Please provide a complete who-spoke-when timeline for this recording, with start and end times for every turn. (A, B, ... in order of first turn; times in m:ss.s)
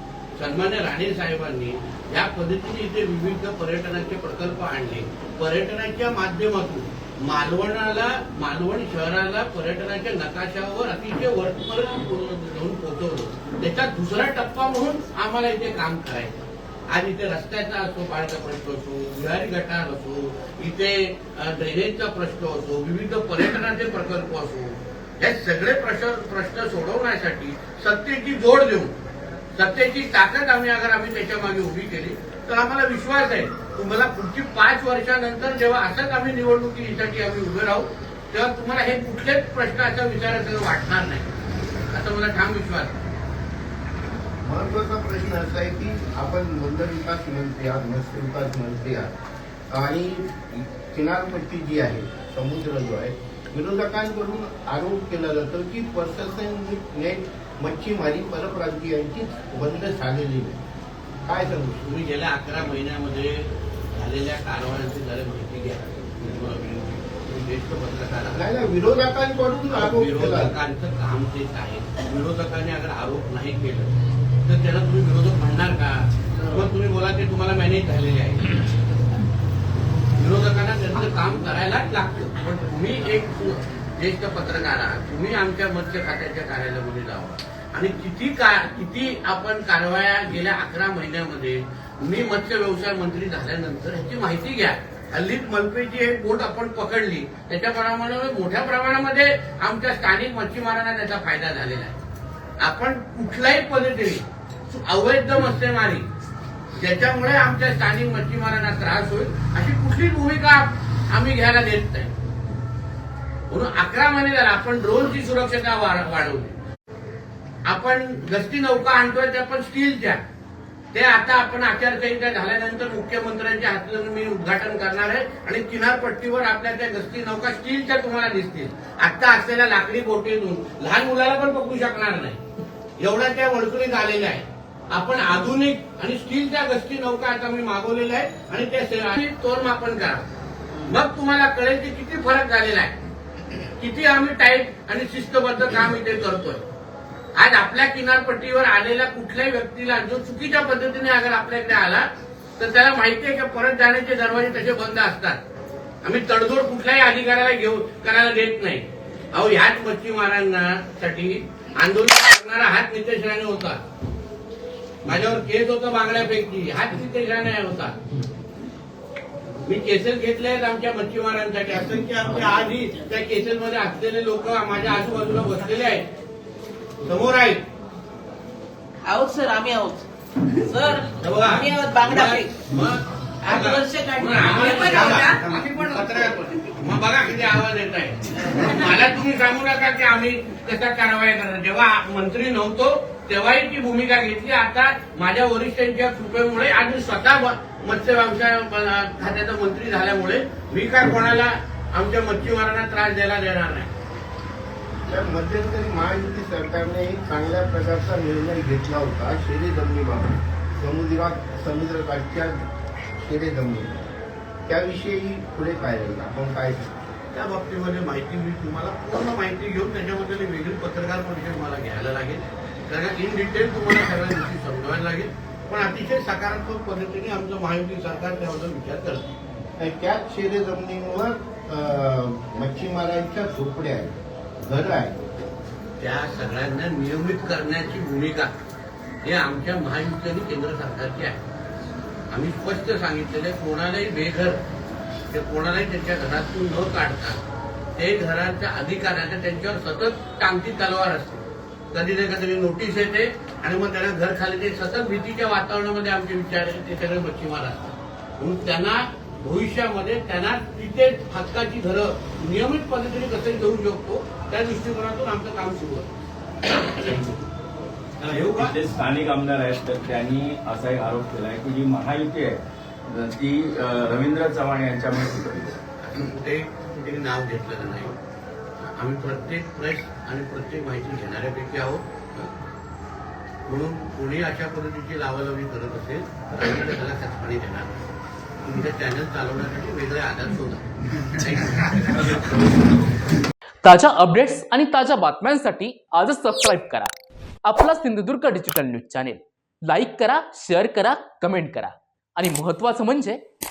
0:00.4-0:16.3 A
0:16.9-0:28.9 A
0:29.5-0:41.3 A
0:41.9-0:43.0 A
0:44.4-0:49.1 B
0:49.7-1:00.6 B
1:01.2-1:01.8 B
1:01.8-1:08.5 A
1:08.3-1:10.5 B
1:09.7-1:13.9 A
1:14.4-1:18.5 A
1:20.2-1:42.0 A
1:42.6-1:46.0 A
1:46.8-1:52.1 A
1:53.5-1:56.6 A
1:57.6-2:00.2 A
2:00.9-2:12.4 A
2:13.0-2:20.2 A
2:20.8-2:22.9 A
2:23.8-2:26.6 A
2:27.4-2:32.1 A
2:32.6-2:35.4 A
2:36.0-2:43.8 A
2:45.0-2:48.0 A
2:49.6-2:56.0 A
2:57.0-2:57.6 A
2:59.0-3:00.1 C
3:00.6-3:02.5 C
3:01.2-3:23.9 A
3:03.4-3:06.3 C
3:25.1-3:32.6 B
3:33.2-3:34.0 B
3:34.6-3:37.0 B
3:37.3-3:49.3 A
3:49.8-3:54.1 B
3:54.6-3:55.2 B
3:56.0-3:58.5 A
3:59.2-4:01.4 A
4:02.3-4:04.6 A
4:05.3-4:07.4 A
4:08.0-4:26.1 A
4:27.0-4:27.3 D
4:28.2-4:28.7 A
4:28.5-4:35.8 D
4:36.0-4:38.2 A
4:38.8-4:42.5 A
4:43.7-4:47.9 A
4:48.6-4:52.7 A
4:53.8-4:57.1 E
4:57.6-5:03.4 E